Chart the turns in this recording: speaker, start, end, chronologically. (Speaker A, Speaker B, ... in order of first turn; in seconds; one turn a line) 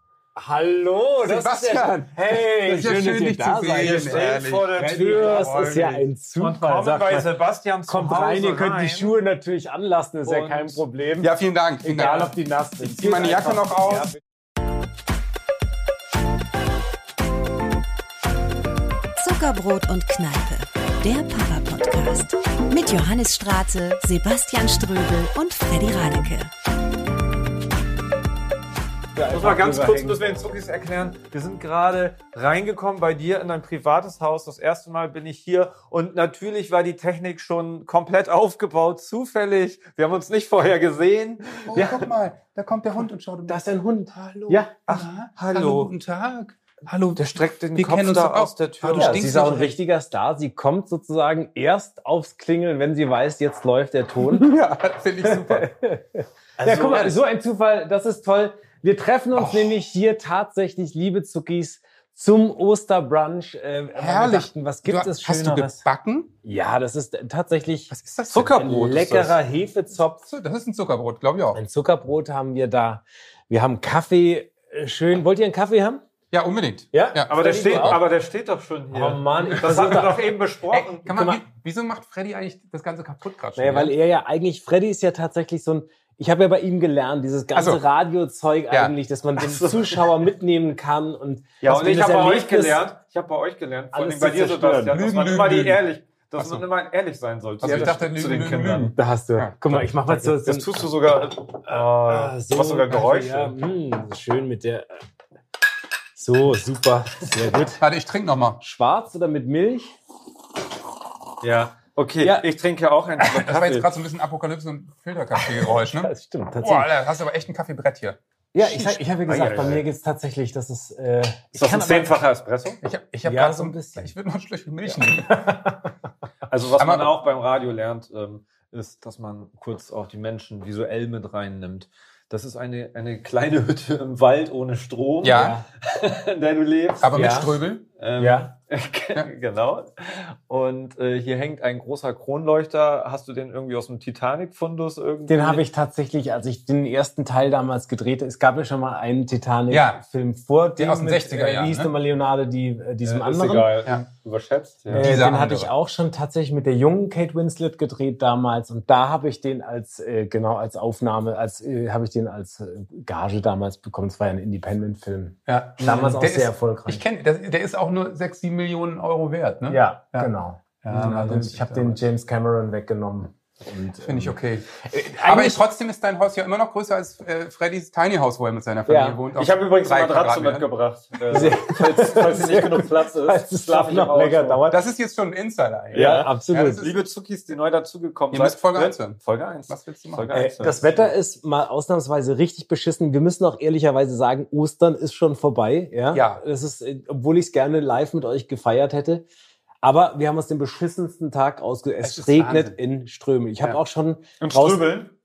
Speaker A: 0.4-4.3
Speaker B: 1.2-4.8
Speaker C: 3.8-9.1
Speaker A: 4.8-7.3
Speaker A: 7.9-11.3
Speaker C: 10.2-10.8
Speaker B: 11.2-14.1
Speaker A: 11.8-14.1
Speaker C: 11.9-12.3
Speaker D: 19.2-26.5
Speaker A: 29.1-30.3
Speaker C: 29.3-42.0
Speaker B: 41.7-49.8
Speaker A: 43.5-44.8
Speaker C: 44.9-45.9
Speaker C: 47.2-49.4
Speaker A: 48.9-54.5
Speaker B: 54.2-55.7
Speaker A: 55.2-65.8
Speaker C: 56.6-57.2
Speaker B: 59.4-59.6
Speaker B: 64.0-66.3
Speaker A: 66.4-70.2
Speaker B: 67.9-68.5
Speaker C: 68.3-69.4
Speaker B: 70.3-71.6
Speaker A: 71.5-76.0
Speaker B: 76.3-78.0
Speaker A: 76.9-78.0
Speaker C: 77.3-81.1
Speaker A: 78.9-80.3
Speaker B: 80.7-84.0
Speaker A: 81.1-81.4
Speaker A: 83.6-92.9
Speaker B: 87.5-87.8
Speaker C: 89.4-90.2
Speaker C: 91.6-99.0
Speaker B: 94.0-95.8
Speaker A: 94.2-94.8
Speaker B: 96.4-96.7
Speaker B: 97.6-99.5
Speaker A: 97.6-98.0
Speaker A: 99.0-100.7
Speaker C: 100.1-103.5
Speaker A: 101.7-104.9
Speaker A: 106.2-107.8
Speaker B: 107.8-108.6
Speaker A: 108.6-110.0
Speaker C: 111.4-113.9
Speaker B: 113.2-119.5
Speaker A: 115.3-116.9
Speaker A: 118.5-122.2
Speaker C: 119.3-119.8
Speaker C: 121.5-122.8
Speaker B: 122.8-125.7
Speaker A: 123.2-124.1
Speaker A: 124.9-125.8
Speaker C: 126.5-137.4
Speaker B: 126.8-127.2
Speaker B: 135.2-135.6
Speaker A: 135.3-135.7
Speaker B: 137.0-137.8
Speaker A: 137.1-137.6
Speaker C: 138.0-145.6
Speaker A: 138.2-138.5
Speaker A: 145.3-153.8
Speaker B: 149.7-150.0
Speaker B: 150.8-151.9
Speaker C: 153.0-155.7
Speaker B: 154.9-155.7
Speaker A: 154.9-167.0
Speaker B: 165.5-170.3
Speaker A: 169.7-175.7
Speaker B: 170.8-172.0
Speaker B: 174.0-180.7
Speaker A: 178.9-179.2
Speaker C: 179.4-184.7
Speaker A: 181.3-184.8
Speaker B: 184.7-186.9
Speaker C: 185.9-191.1
Speaker A: 185.9-186.9
Speaker B: 188.3-190.3
Speaker A: 190.3-199.2
Speaker B: 196.1-196.4
Speaker A: 199.8-204.9
Speaker B: 202.0-202.8
Speaker C: 204.4-205.1